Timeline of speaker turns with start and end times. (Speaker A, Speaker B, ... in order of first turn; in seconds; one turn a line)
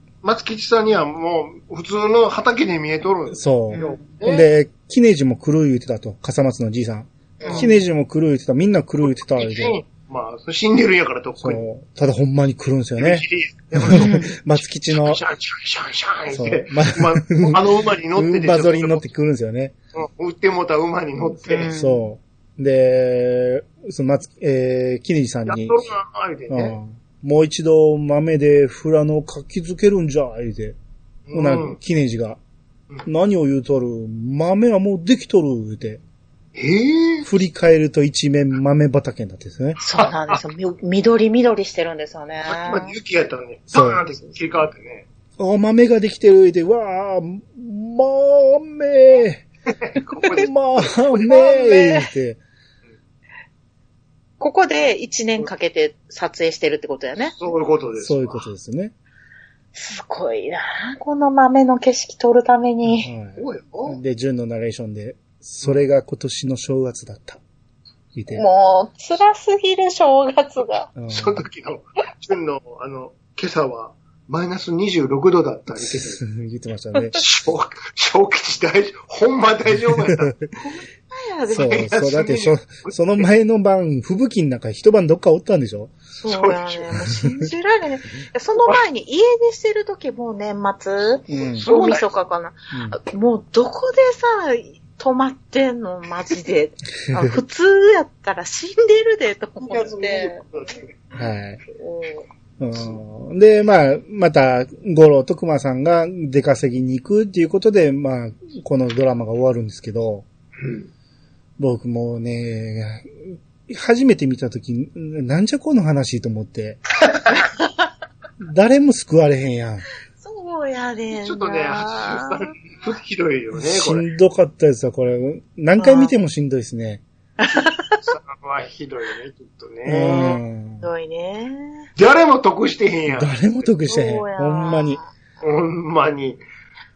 Speaker A: 0.2-4.5
Speaker B: 3.3-9.8
Speaker C: 3.7-4.0
Speaker C: 7.4-7.8
Speaker A: 7.4-7.7
Speaker A: 9.2-11.6
Speaker B: 11.4-13.2
Speaker A: 13.0-14.2
Speaker B: 13.8-15.2
Speaker C: 13.8-14.3
Speaker A: 14.9-19.1
Speaker B: 16.3-19.7
Speaker A: 19.9-21.7
Speaker C: 21.4-22.1
Speaker B: 21.7-25.9
Speaker A: 25.5-26.8
Speaker B: 26.5-30.8
Speaker A: 31.3-31.8
Speaker B: 31.3-32.4
Speaker B: 33.0-36.0
Speaker A: 36.5-37.3
Speaker B: 37.2-39.8
Speaker C: 39.8-42.9
Speaker A: 40.0-40.4
Speaker A: 42.5-45.0
Speaker B: 43.7-44.0
Speaker B: 45.4-49.4
Speaker A: 49.8-51.6
Speaker B: 50.3-52.4
Speaker C: 51.6-52.0
Speaker C: 54.4-57.4
Speaker A: 57.4-58.5
Speaker B: 58.0-58.9
Speaker C: 59.7-63.1
Speaker B: 62.9-67.4
Speaker A: 63.4-64.0
Speaker B: 68.1-68.4
Speaker C: 68.3-70.9
Speaker B: 71.0-71.4
Speaker A: 71.1-76.2
Speaker B: 75.8-77.2
Speaker A: 77.1-80.3
Speaker B: 80.1-80.4
Speaker C: 80.6-81.9
Speaker B: 81.5-85.9
Speaker A: 81.5-83.2
Speaker C: 86.2-100.4
Speaker A: 86.3-86.9
Speaker B: 91.3-91.7
Speaker A: 91.3-92.1
Speaker B: 92.7-93.0
Speaker B: 97.1-97.4
Speaker A: 99.6-100.8
Speaker B: 101.1-101.6
Speaker C: 101.8-102.2
Speaker B: 102.6-110.2
Speaker A: 110.6-110.9
Speaker B: 111.6-116.8
Speaker C: 117.3-117.7
Speaker B: 118.4-119.8
Speaker C: 120.2-122.5
Speaker A: 121.1-124.0
Speaker B: 123.5-127.0
Speaker C: 125.8-126.1
Speaker C: 127.4-128.0
Speaker A: 127.6-130.3
Speaker B: 129.8-130.9
Speaker C: 129.9-131.9
Speaker A: 132.0-133.3
Speaker B: 133.1-135.0
Speaker C: 133.9-135.1
Speaker A: 135.4-136.4